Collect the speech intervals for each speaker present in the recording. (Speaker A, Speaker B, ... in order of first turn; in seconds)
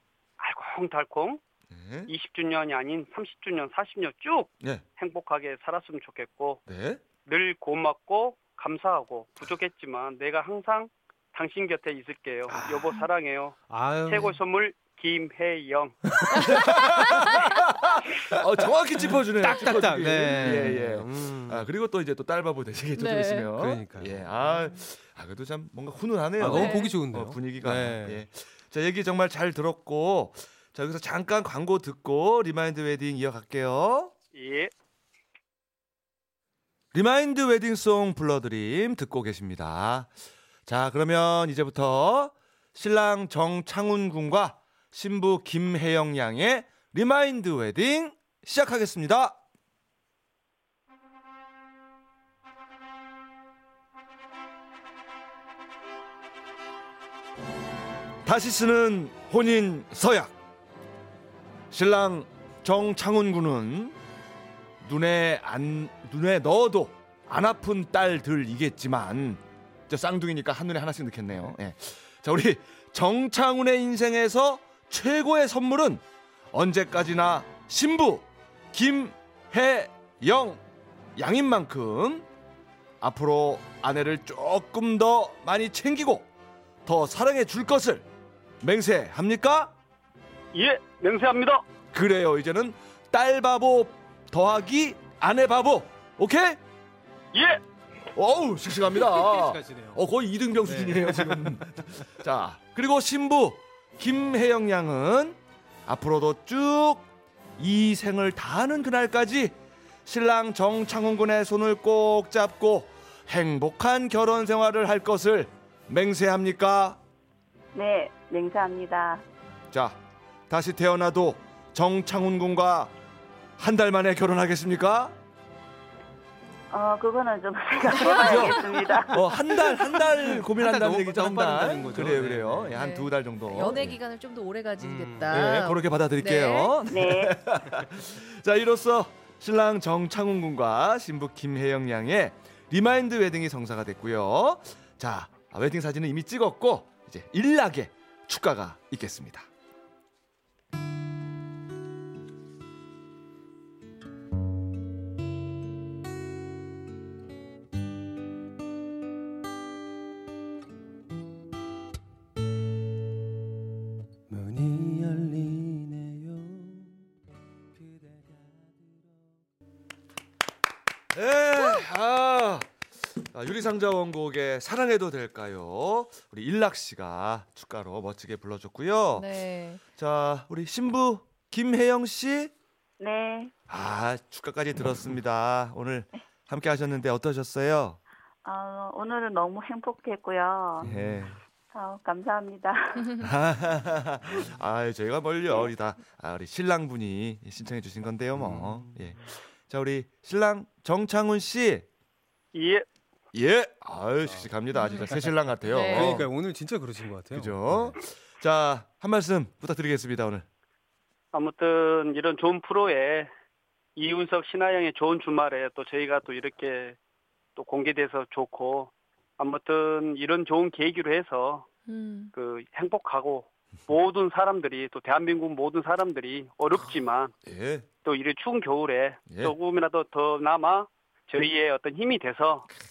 Speaker A: 0.4-1.4, 2.1-6.6, 7.3-16.1, 34.3-34.7, 90.5-91.6, 97.3-97.6, 202.5-202.9, 211.3-213.3, 214.0-217.0, 217.6-221.7, 222.3-227.3, 228.1-232.7
Speaker B: 1.7-2.1, 6.7-7.0, 16.4-34.1, 36.9-40.1, 40.7-49.4, 58.2-60.4, 61.7-64.0, 64.8-80.6, 81.2-82.3, 83.0-86.3, 86.8-88.1, 88.6-89.7, 91.9-96.6, 98.2-107.1, 107.6-117.0, 119.7-120.0, 120.5-122.9, 123.6-125.2, 128.0-134.0, 135.3-149.5, 171.1-179.4, 179.9-182.5, 183.7-188.0, 190.8-191.4, 193.2-201.9, 203.3-206.3, 207.3-210.5, 227.4-227.9, 229.3-229.6
Speaker C: 12.5-12.9, 13.7-14.4, 19.4-21.7, 23.6-24.3, 26.4-28.2, 99.1-100.0, 100.6-101.6, 130.1-132.8, 134.8-135.4, 164.3-167.0, 167.8-168.7, 190.8-191.3, 198.3-199.1, 205.9-208.0
Speaker D: 16.4-17.5, 20.4-20.7, 23.0-23.5, 26.5-27.0, 128.1-128.4, 132.7-136.8, 179.2-179.8, 204.8-205.1, 205.6-206.2, 221.9-222.3
Speaker E: 117.7-119.2, 126.7-129.2, 136.9-137.4, 183.0-183.5, 188.4-190.9, 191.7-193.1